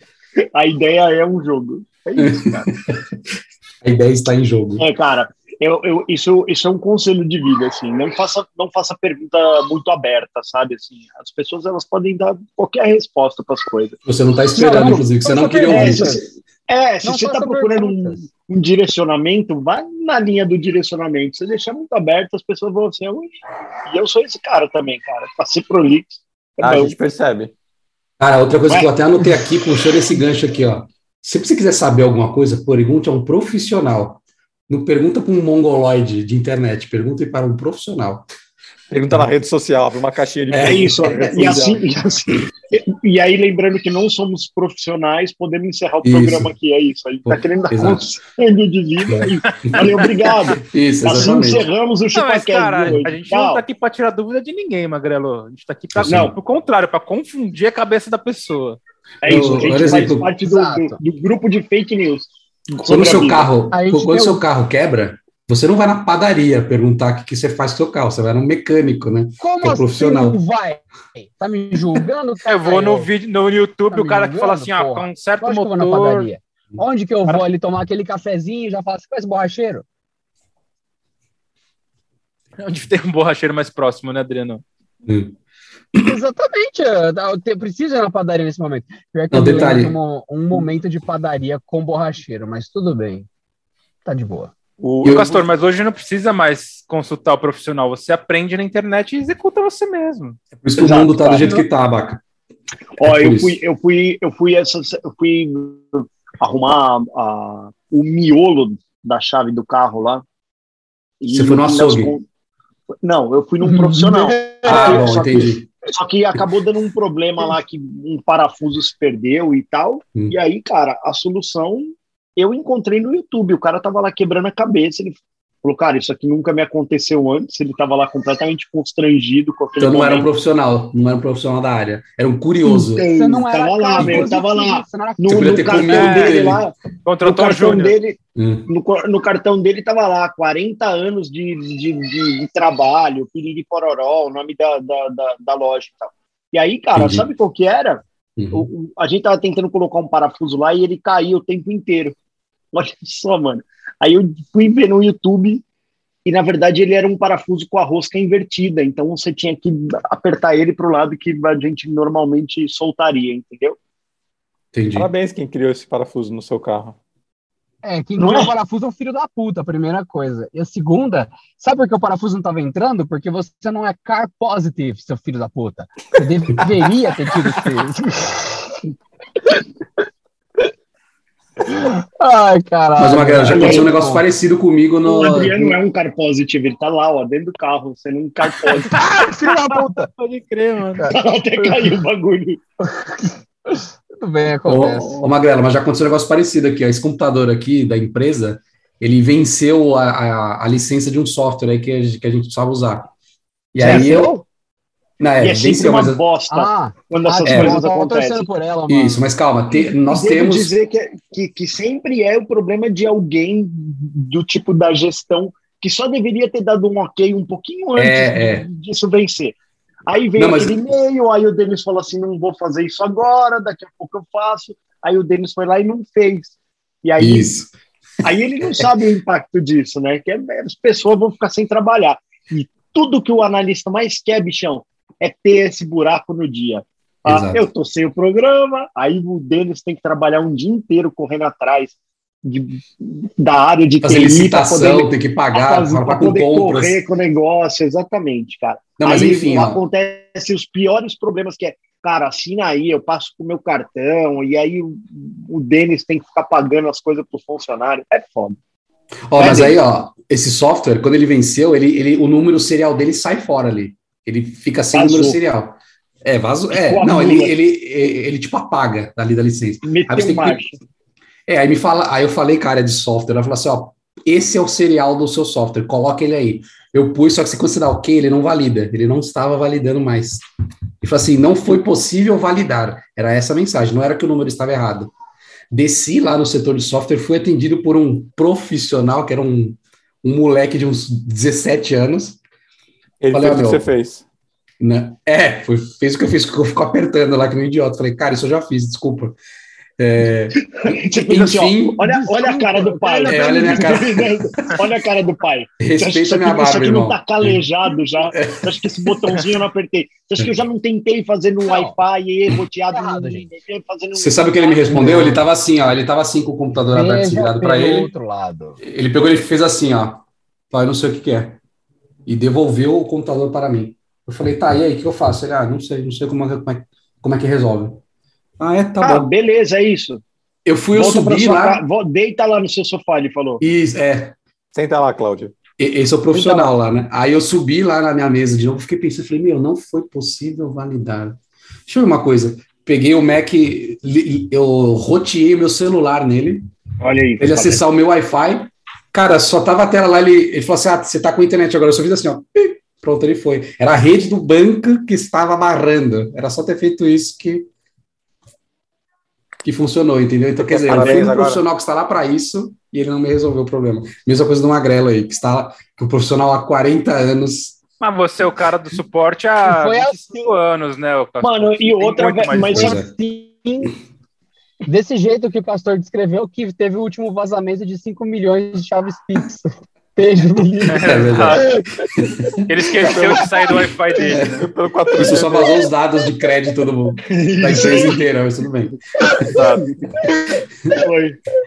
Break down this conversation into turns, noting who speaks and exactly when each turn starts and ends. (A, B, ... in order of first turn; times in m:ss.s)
0:00.5-0:02.7 A
0:02.2-0:03.0 B
0:03.8-0:04.8 B
0:04.8-0:14.0 A
0:14.0-0:16.2 B
0:14.6-0:16.2 C
0:15.6-0:23.3 A
0:17.0-0:18.2 C
0:23.8-0:26.9 A
0:26.6-0:27.5 D
0:28.2-0:38.2 B
0:38.9-0:41.8 D
0:40.5-0:41.6 B
0:40.6-0:53.6 A
0:46.0-0:46.5 B
0:47.2-0:48.0 B
0:49.1-0:49.8 B
0:49.6-0:50.3 E
0:50.5-0:51.6 B
0:52.1-0:58.8 E
0:55.9-0:56.3 B
0:56.0-0:56.3 A
0:59.2-1:03.5 A
0:59.2-1:00.3 B
1:00.4-1:01.0 C
1:02.9-1:10.4 B
1:03.7-1:04.4 C
1:09.4-1:13.1 C
1:12.4-1:16.3 E
1:13.9-1:19.8 C
1:22.6-1:24.6 E
1:25.0-1:25.3 B
1:26.0-1:33.3 C
1:29.3-1:30.0 B
1:34.0-1:34.5 C
1:34.8-1:35.5 D
1:35.0-1:40.4 E
1:40.6-1:42.2 B
1:40.8-1:41.6 A
1:43.0-1:50.2 A
1:43.0-1:43.6 B
1:51.2-1:52.2 A
1:51.3-1:52.1 B
1:53.0-2:10.3 A
1:53.6-1:55.2 C
1:54.6-1:55.7 B
2:09.8-2:13.0 B
2:12.6-2:18.2 A
2:13.1-2:15.8 C
2:14.0-2:14.3 B
2:15.3-2:16.6 B
2:15.8-2:16.4 E
2:17.0-2:18.0 E
2:18.4-2:18.7 B
2:18.7-2:32.1 A
2:26.9-2:27.3 B
2:28.4-2:28.7 B
2:32.7-2:35.6 A
2:36.2-2:43.8 A
2:44.7-2:45.1 B
2:44.9-2:47.0 D
2:47.8-2:58.8 C
2:48.2-2:48.5 A
3:01.7-3:04.2 C
3:03.0-3:05.7 B
3:03.4-3:03.9 A
3:05.0-3:09.0 A
3:08.8-3:10.1 C
3:09.5-3:11.1 E
3:11.0-3:12.0 C
3:11.1-3:12.6 A
3:12.8-3:15.2 C
3:14.6-3:23.1 B
3:23.7-3:24.4 B
3:23.8-3:24.4 C
3:25.2-3:26.2 B
3:25.4-3:28.4 A
3:26.5-3:29.2 C
3:27.4-3:27.8 B
3:28.9-3:30.7 B
3:29.8-3:39.6 A
3:38.0-3:38.6 B
3:40.1-3:47.5 A
3:40.4-3:40.8 B
3:47.2-3:47.7 B
3:48.2-4:18.6 A
3:57.2-3:57.6 B
4:04.0-4:07.0 B
4:09.0-4:09.8 B
4:19.3-4:30.6 B
4:19.4-4:19.8 A
4:24.9-4:25.4 A
4:26.7-4:27.5 A
4:29.8-4:30.8 A
4:31.5-4:40.4 B
4:41.0-4:45.1 B
4:45.7-4:52.4 B
4:53.2-4:54.2 D
4:53.3-4:53.9 B
4:54.8-4:59.4 B
5:00.0-5:00.7 B
5:00.8-5:15.2 A
5:01.2-5:02.0 B
5:02.0-5:04.0 C
5:03.2-5:04.7 B
5:05.8-5:07.6 B
5:08.3-5:09.1 B
5:11.6-5:11.9 C
5:12.9-5:13.5 C
5:14.1-5:18.1 B
5:14.9-5:15.4 C
5:16.9-5:18.8 C
5:18.8-5:21.6 B
5:22.2-5:28.0 B
5:28.6-5:29.3 B
5:29.0-5:30.2 A
5:30.6-5:31.8 B
5:30.9-5:33.6 A
5:33.6-5:34.4 B
5:34.7-5:35.6 D
5:35.8-5:46.6 B
5:36.3-5:36.7 A
5:47.0-5:47.8 A
5:47.4-5:57.7 B
5:59.6-6:07.8 B
6:00.6-6:01.6 D
6:01.0-6:01.3 A
6:08.0-6:12.9 E
6:09.6-6:10.5 C
6:11.4-6:13.0 A
6:12.7-6:13.9 C
6:12.8-6:13.1 B
6:14.8-6:22.5 C
6:20.9-6:21.6 E
6:21.0-6:22.5 B
6:22.7-6:24.6 E
6:23.0-6:23.5 D
6:23.3-6:23.8 C
6:24.3-6:24.6 B
6:24.5-6:25.7 D
6:25.2-6:29.0 B
6:25.2-6:25.9 C
6:27.3-6:28.2 A
6:29.2-6:29.6 C
6:29.5-6:30.2 A
6:29.5-6:29.8 E
6:30.2-6:31.0 C
6:30.9-6:31.4 A